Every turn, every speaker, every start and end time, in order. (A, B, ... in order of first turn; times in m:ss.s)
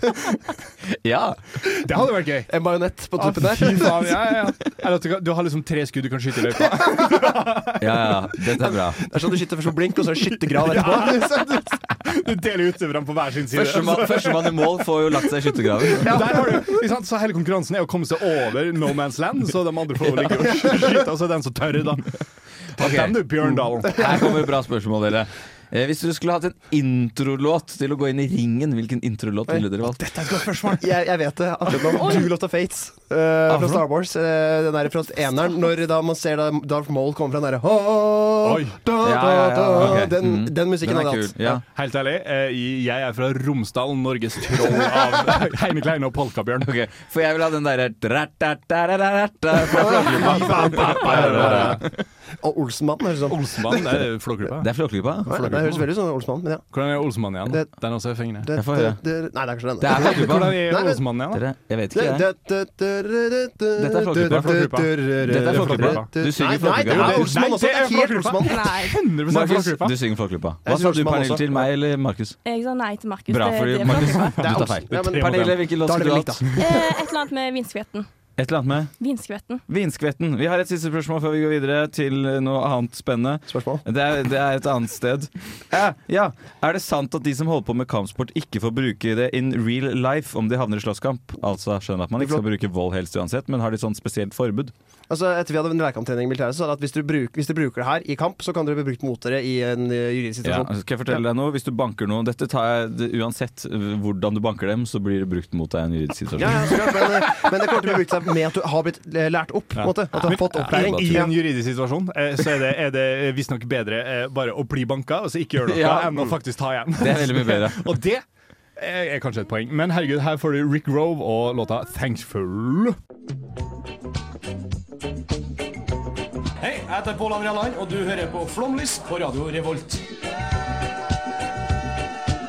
0:00.9-0:01.6 A
0:01.7-0:02.6 B
0:02.5-0:04.4 C
0:03.2-0:08.2 B
0:06.8-0:07.3 C
0:07.8-0:09.1 A
0:08.6-0:11.8 C
0:10.3-0:14.8 B
0:13.5-0:16.2 A
0:15.9-0:22.2 B
0:22.8-0:24.1 B
0:22.8-0:30.1 A
0:23.8-0:24.5 C
0:30.0-0:31.0 B
0:30.6-0:41.6 C
0:32.0-0:32.3 D
0:33.5-0:33.8 A
0:38.4-0:38.8 B
0:39.0-0:41.6 A
0:41.6-0:46.7 B
0:46.6-0:52.0 A
0:49.7-0:51.9 C
0:49.7-0:51.9 B
0:52.4-0:54.1 C
0:53.2-0:55.9 B
0:54.6-0:55.5 A
0:55.3-0:56.8 C
0:56.7-0:58.5 B
0:57.4-0:57.7 C
0:58.4-1:01.1 C
0:58.5-0:59.0 A
0:59.8-1:00.7 A
1:00.0-1:01.4 B
1:01.3-1:02.3 A
1:01.9-1:08.8 C
1:03.8-1:07.4 A
1:04.2-1:06.2 B
1:06.8-1:10.0 B
1:08.4-1:09.0 D
1:09.3-1:12.4 A
1:10.6-1:11.7 C
1:12.4-1:14.5 D
1:13.3-1:16.4 A
1:13.9-1:15.6 B
1:14.5-1:16.9 C
1:16.6-1:18.1 D
1:18.4-1:18.9 A
1:19.0-1:19.6 D
1:19.7-1:34.7 A
1:23.5-1:23.8 C
1:35.1-1:41.2 C
1:40.4-1:47.0 A
1:46.4-1:51.4 C
1:49.8-1:58.2 B
1:50.1-1:51.3 A
1:55.7-1:56.4 A
1:57.0-1:57.9 A
1:58.8-2:03.0 B
2:06.6-2:10.0 E